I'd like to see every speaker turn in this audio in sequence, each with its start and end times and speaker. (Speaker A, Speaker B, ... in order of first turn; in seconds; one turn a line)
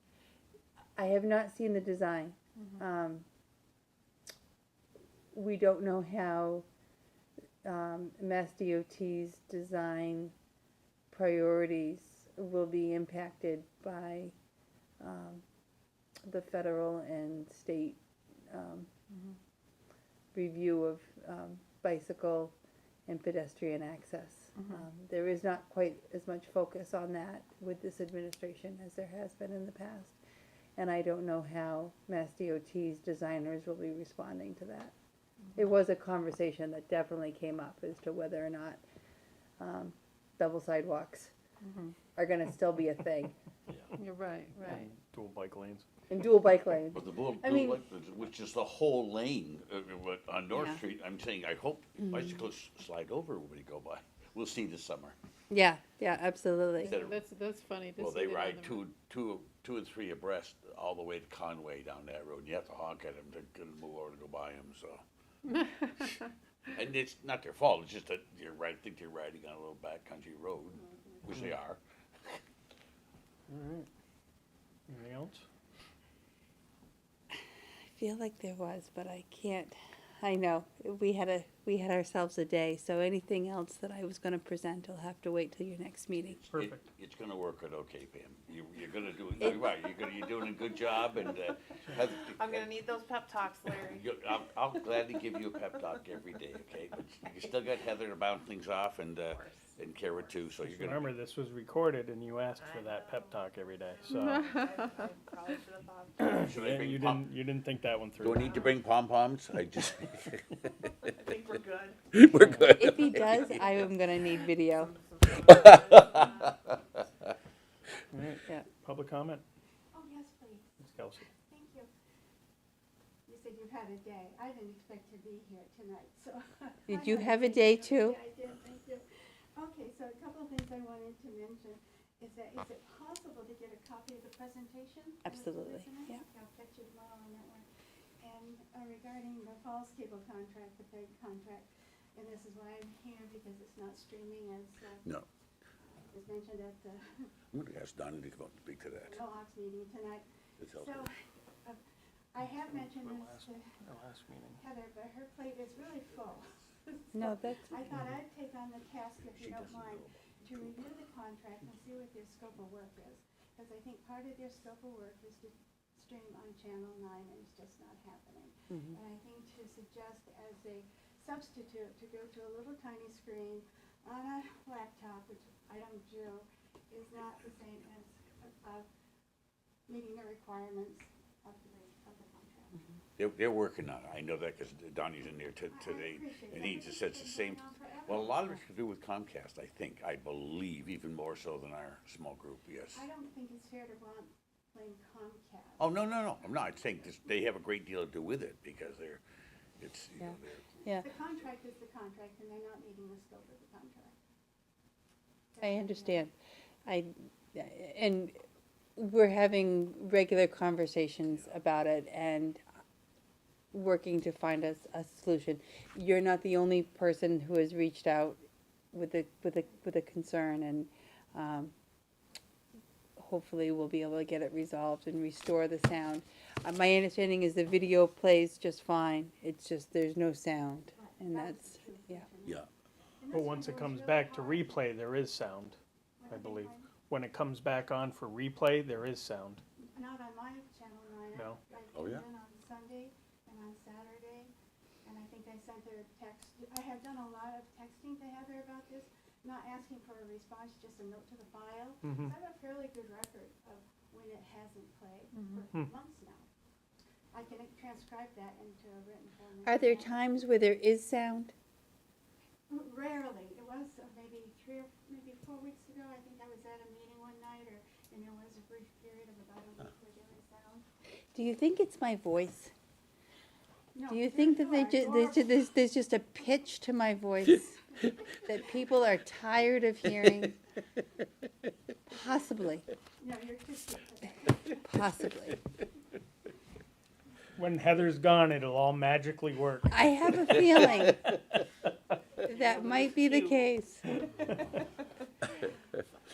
Speaker A: 0.9-3.2
Speaker A: 5.3-6.7
Speaker A: 7.6-10.3
Speaker A: 11.1-14.3
Speaker A: 15.0-15.4
Speaker A: 16.2-18.0
Speaker A: 18.5-18.9
Speaker A: 20.3-22.5
Speaker A: 23.1-30.2
Speaker A: 30.8-34.9
Speaker A: 35.5-38.8
Speaker A: 39.6-41.3
Speaker A: 42.1-43.3
Speaker B: 44.0-44.9
Speaker C: 44.6-45.8
Speaker A: 46.1-47.8
Speaker D: 46.9-55.1
Speaker A: 50.5-50.8
Speaker A: 55.5-57.0
Speaker D: 56.8-57.2
Speaker B: 56.8-58.8
Speaker D: 58.0-65.0
Speaker D: 66.7-72.4
Speaker C: 73.5-73.9
Speaker C: 74.9-75.4
Speaker A: 77.9-86.4
Speaker D: 86.1-92.9
Speaker C: 86.5-86.9
Speaker E: 92.4-94.0
Speaker D: 93.8-101.1
Speaker E: 99.3-99.6
Speaker C: 100.6-104.5
Speaker E: 102.6-106.4
Speaker C: 106.2-108.6
Speaker D: 106.3-107.3
Speaker D: 108.2-110.5
Speaker E: 108.4-108.7
Speaker D: 111.0-111.5
Speaker E: 111.2-112.0
Speaker D: 112.1-113.8
Speaker C: 112.3-112.8
Speaker A: 112.7-114.9
Speaker E: 115.1-116.3
Speaker D: 115.3-116.5
Speaker C: 118.1-119.4
Speaker F: 119.9-120.7
Speaker C: 120.8-121.3
Speaker F: 121.4-121.9
Speaker F: 123.3-137.7
Speaker A: 126.9-128.2
Speaker A: 135.2-136.2
Speaker F: 138.2-145.0
Speaker F: 146.1-147.1
Speaker D: 147.5-149.3
Speaker F: 149.2-150.2
Speaker D: 150.6-151.1
Speaker F: 152.3-153.7
Speaker C: 152.4-154.6
Speaker F: 154.6-156.5
Speaker A: 157.1-157.9
Speaker F: 157.7-178.9
Speaker D: 159.2-161.0
Speaker A: 168.7-169.0
Speaker F: 179.9-182.8
Speaker D: 183.2-193.1
Speaker F: 185.7-188.3
Speaker F: 192.9-195.8
Speaker D: 195.8-199.2
Speaker D: 199.8-200.7
Speaker F: 201.0-204.2
Speaker F: 205.5-206.2
Speaker A: 205.6-206.3
Speaker A: 206.8-208.4
Speaker A: 208.9-212.6
Speaker A: 213.7-218.4
Speaker A: 218.9-221.7
Speaker A: 223.2-232.2
Speaker F: 230.9-232.6
Speaker F: 233.2-234.8
Speaker C: 233.3-235.8
Speaker F: 236.2-236.9
Speaker C: 236.3-239.6
Speaker F: 239.9-244.5
Speaker C: 241.3-241.6
Speaker D: 241.9-242.2
Speaker F: 245.0-256.5
Speaker C: 252.0-252.3
Speaker F: 257.3-260.1
Speaker A: 259.6-261.5
Speaker F: 262.7-270.8
Speaker A: 271.3-272.7
Speaker F: 273.9-275.5
Speaker A: 274.1-280.6
Speaker A: 282.1-282.9
Speaker F: 283.2-284.7
Speaker A: 284.8-285.6
Speaker C: 287.6-291.3
Speaker A: 289.9-291.2
Speaker A: 292.4-294.2